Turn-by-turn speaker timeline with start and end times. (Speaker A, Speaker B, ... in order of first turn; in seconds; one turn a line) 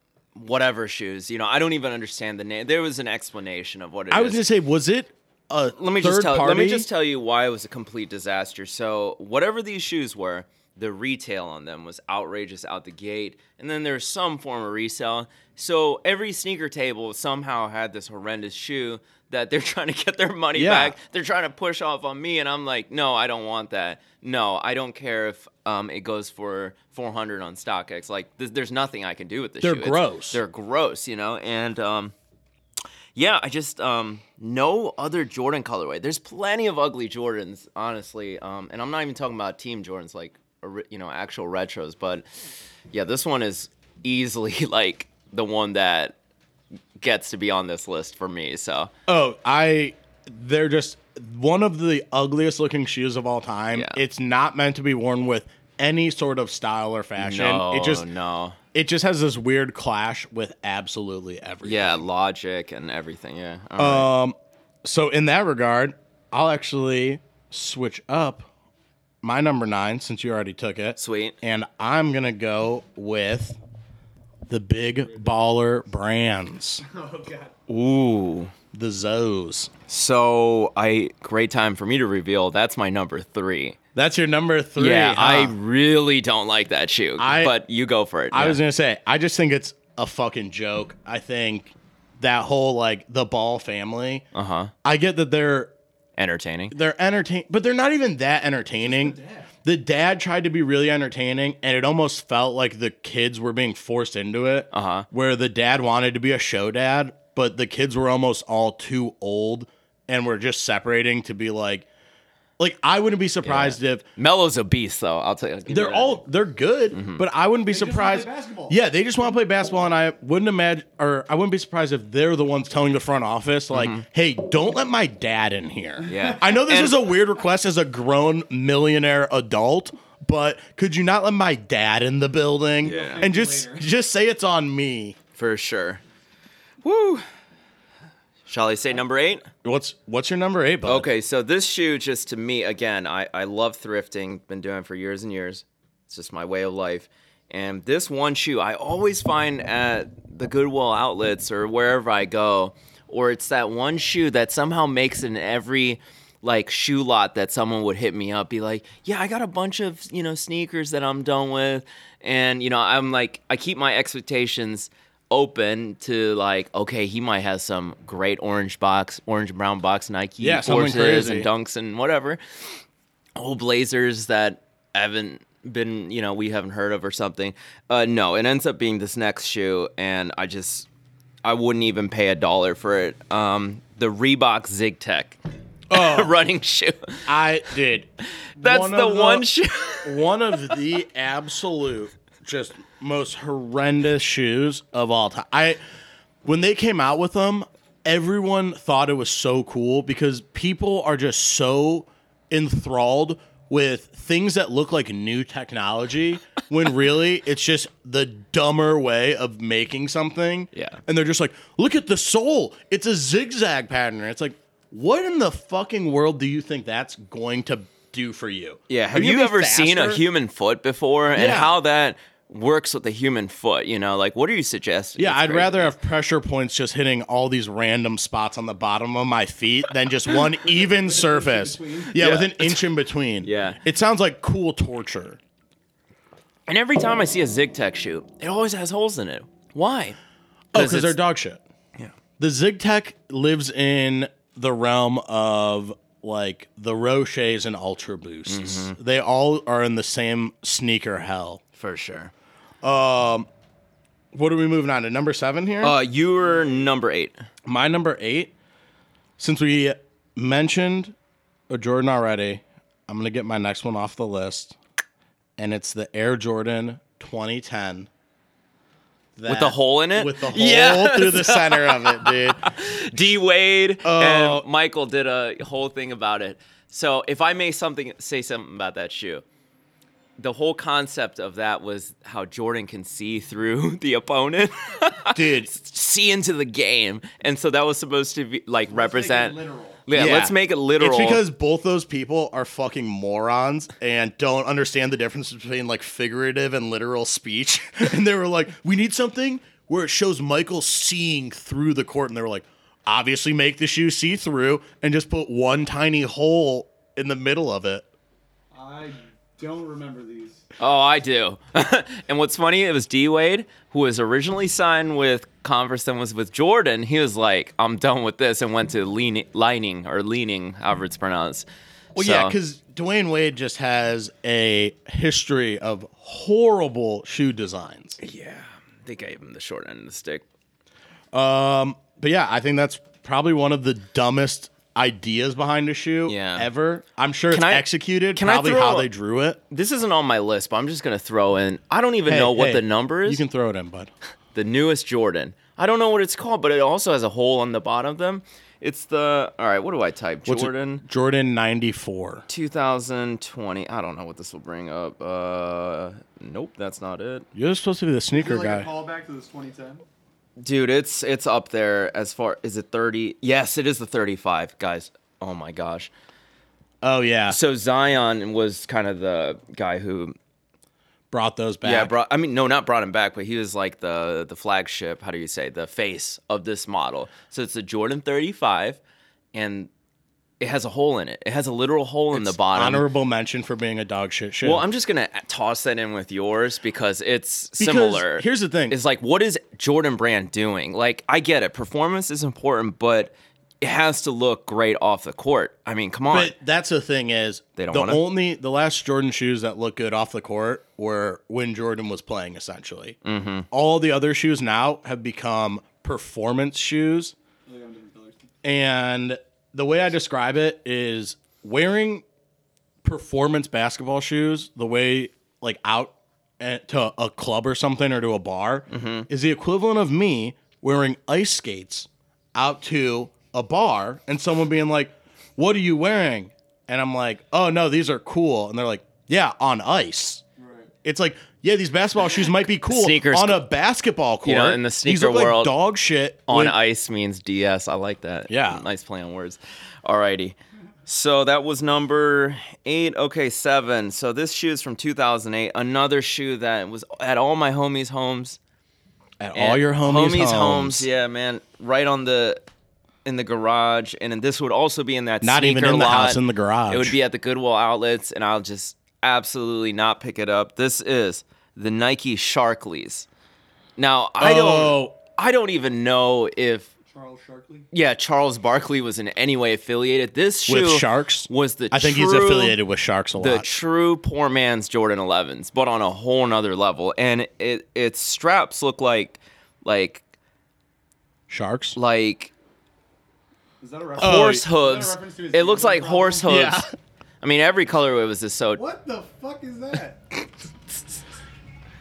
Speaker A: 0.3-4.4
Speaker B: 4.1-6.9
Speaker A: 5.8-32.1
Speaker B: 20.5-20.9
Speaker B: 29.6-30.4
Speaker A: 33.1-42.2
Speaker A: 42.9-46.1
Speaker A: 47.0-48.9
Speaker B: 49.1-58.0
Speaker A: 53.7-54.0
Speaker A: 57.2-58.6
Speaker B: 58.7-62.0
Speaker A: 61.6-64.1
Speaker B: 63.8-68.5
Speaker B: 69.2-73.6
Speaker A: 71.0-71.3
Speaker B: 74.5-76.8
Speaker C: 76.8-77.5
Speaker A: 77.7-78.5
Speaker B: 78.7-79.7
Speaker A: 79.9-83.8
Speaker B: 83.9-85.5
Speaker A: 84.8-88.6
Speaker B: 87.2-87.5
Speaker B: 88.3-94.2
Speaker A: 94.3-94.7
Speaker B: 94.8-95.7
Speaker A: 96.2-96.7
Speaker B: 96.7-111.9
Speaker C: 98.8-99.5
Speaker A: 104.7-105.1
Speaker B: 112.6-114.0
Speaker A: 113.4-116.2
Speaker B: 115.7-135.2
Speaker A: 116.9-117.2
Speaker C: 117.7-118.8
Speaker A: 123.7-124.0
Speaker C: 126.0-126.6
Speaker A: 126.1-127.0
Speaker A: 132.8-133.3
Speaker C: 132.8-133.9
Speaker A: 135.3-136.0
Speaker A: 136.8-137.2
Speaker A: 138.5-139.5
Speaker B: 139.6-141.1
Speaker A: 140.8-172.4
Speaker B: 170.4-171.5
Speaker A: 173.3-180.9
Speaker A: 181.4-185.4
Speaker B: 185.9-186.3
Speaker A: 185.9-187.3
Speaker B: 187.2-188.1
Speaker B: 188.6-189.4
Speaker A: 188.6-190.7
Speaker B: 190.0-195.8
Speaker B: 196.4-220.2
Speaker A: 210.7-211.0
Speaker A: 218.9-225.9
Speaker B: 221.3-221.7
Speaker B: 225.2-235.4
Speaker C: 230.7-232.2
Speaker A: 232.2-232.8
Speaker A: 233.4-233.8
Speaker A: 236.7-240.2
Speaker B: 240.7-241.6
Speaker A: 240.7-241.2
Speaker B: 242.4-251.6
Speaker A: 248.5-248.9
Speaker A: 251.8-252.3
Speaker B: 252.8-253.5
Speaker B: 254.3-255.9
Speaker A: 255.8-257.3
Speaker B: 257.6-258.5
Speaker B: 259.4-261.1
Speaker B: 261.7-264.8
Speaker B: 265.6-268.1
Speaker B: 269.4-272.7
Speaker A: 269.5-279.4
Speaker B: 274.0-274.6
Speaker A: 280.4-291.4
Speaker B: 285.3-285.7
Speaker C: 288.9-290.0
Speaker B: 290.1-308.1
Speaker C: 308.7-310.6
Speaker A: 310.8-321.6
Speaker B: 322.1-328.2
Speaker A: 322.2-322.5
Speaker A: 328.2-330.4
Speaker B: 331.3-339.6
Speaker A: 336.3-336.7
Speaker A: 337.5-339.1
Speaker A: 339.7-343.4
Speaker B: 342.3-344.1
Speaker A: 344.5-351.0
Speaker B: 350.4-352.4
Speaker A: 352.5-357.4
Speaker B: 357.5-358.9
Speaker C: 358.3-360.0
Speaker A: 360.6-366.1
Speaker B: 367.0-367.6
Speaker A: 367.5-370.3
Speaker B: 371.3-372.1
Speaker A: 371.8-379.0
Speaker A: 379.5-379.9
Speaker A: 380.6-383.0
Speaker B: 382.3-384.8
Speaker A: 384.6-396.5
Speaker B: 387.8-388.9
Speaker B: 396.3-403.2
Speaker A: 397.8-398.2
Speaker A: 403.2-403.7
Speaker B: 403.7-407.3
Speaker C: 407.6-408.5
Speaker B: 408.6-412.2
Speaker B: 413.0-430.4
Speaker A: 418.9-419.3
Speaker C: 430.6-430.9
Speaker B: 431.0-436.7
Speaker A: 432.9-433.6
Speaker A: 434.4-435.7
Speaker A: 436.5-448.6
Speaker B: 438.5-438.8
Speaker B: 449.4-451.1
Speaker A: 449.6-452.6
Speaker A: 453.2-463.2
Speaker B: 455.4-457.1
Speaker A: 464.0-466.9
Speaker B: 464.4-465.1
Speaker C: 467.1-467.9
Speaker A: 467.9-472.8
Speaker B: 470.7-473.7
Speaker A: 473.4-480.2
Speaker B: 481.5-482.0
Speaker A: 481.9-482.5
Speaker C: 483.8-486.6
Speaker A: 484.2-486.9
Speaker B: 484.2-484.6
Speaker B: 486.5-486.9
Speaker A: 487.4-488.8
Speaker C: 488.7-490.2